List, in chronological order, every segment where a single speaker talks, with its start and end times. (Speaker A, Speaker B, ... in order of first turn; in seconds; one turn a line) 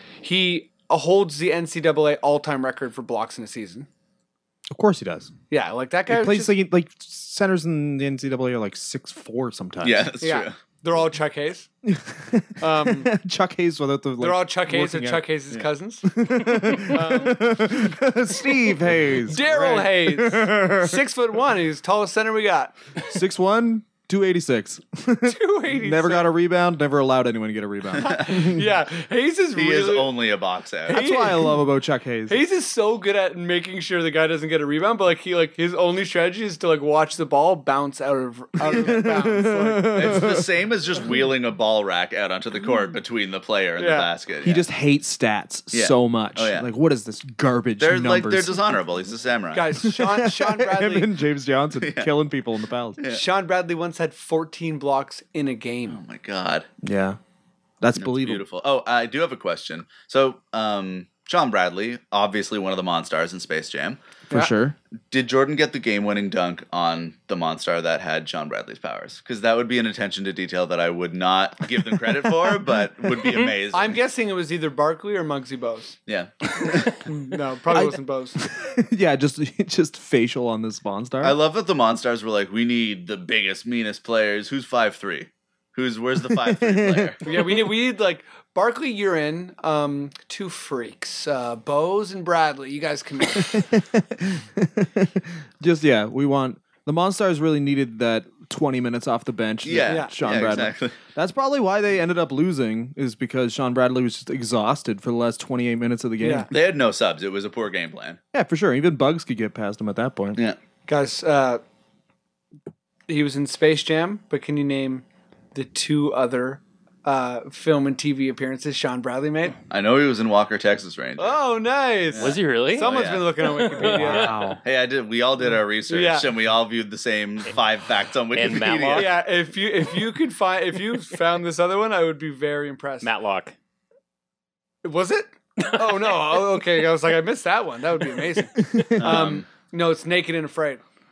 Speaker A: 0.2-3.9
Speaker B: 4.7-5.3
Speaker A: 5.5-6.5
Speaker B: 6.1-10.1
Speaker C: 9.8-10.6
Speaker A: 10.2-11.7
Speaker B: 11.8-15.2
Speaker A: 12.6-13.1
Speaker A: 14.2-16.1
Speaker B: 16.1-21.0
Speaker A: 16.8-17.5
Speaker A: 19.2-22.8
Speaker B: 23.1-28.6
Speaker A: 25.2-26.3
Speaker A: 28.0-30.1
Speaker C: 28.1-28.4
Speaker C: 29.5-31.1
Speaker A: 30.9-31.6
Speaker B: 30.9-32.4
Speaker A: 32.3-40.3
Speaker B: 38.6-40.5
Speaker C: 39.9-44.6
Speaker A: 43.8-44.1
Speaker B: 44.4-48.6
Speaker C: 45.7-46.7
Speaker C: 47.8-49.8
Speaker A: 49.5-51.1
Speaker B: 49.8-53.0
Speaker C: 51.8-52.1
Speaker C: 53.0-53.2
Speaker A: 53.1-56.0
Speaker C: 55.9-56.7
Speaker B: 56.8-57.2
Speaker B: 57.8-58.4
Speaker C: 58.0-64.0
Speaker B: 64.3-64.8
Speaker C: 65.1-74.0
Speaker A: 73.7-76.0
Speaker C: 76.1-76.9
Speaker A: 77.0-78.4
Speaker B: 77.7-81.3
Speaker C: 81.2-87.3
Speaker B: 86.4-87.3
Speaker A: 87.2-93.7
Speaker B: 93.4-106.5
Speaker C: 99.6-101.0
Speaker A: 99.9-100.1
Speaker A: 106.2-106.5
Speaker C: 106.5-108.2
Speaker B: 108.3-110.4
Speaker A: 110.9-111.6
Speaker A: 113.1-119.6
Speaker C: 119.7-121.4
Speaker A: 121.2-124.5
Speaker C: 122.1-123.5
Speaker D: 122.1-124.4
Speaker B: 123.8-124.6
Speaker C: 124.6-129.1
Speaker A: 125.9-126.3
Speaker D: 128.3-129.2
Speaker A: 128.9-133.1
Speaker D: 133.0-133.5
Speaker A: 134.8-140.8
Speaker D: 135.8-136.4
Speaker B: 138.6-139.1
Speaker C: 139.0-139.5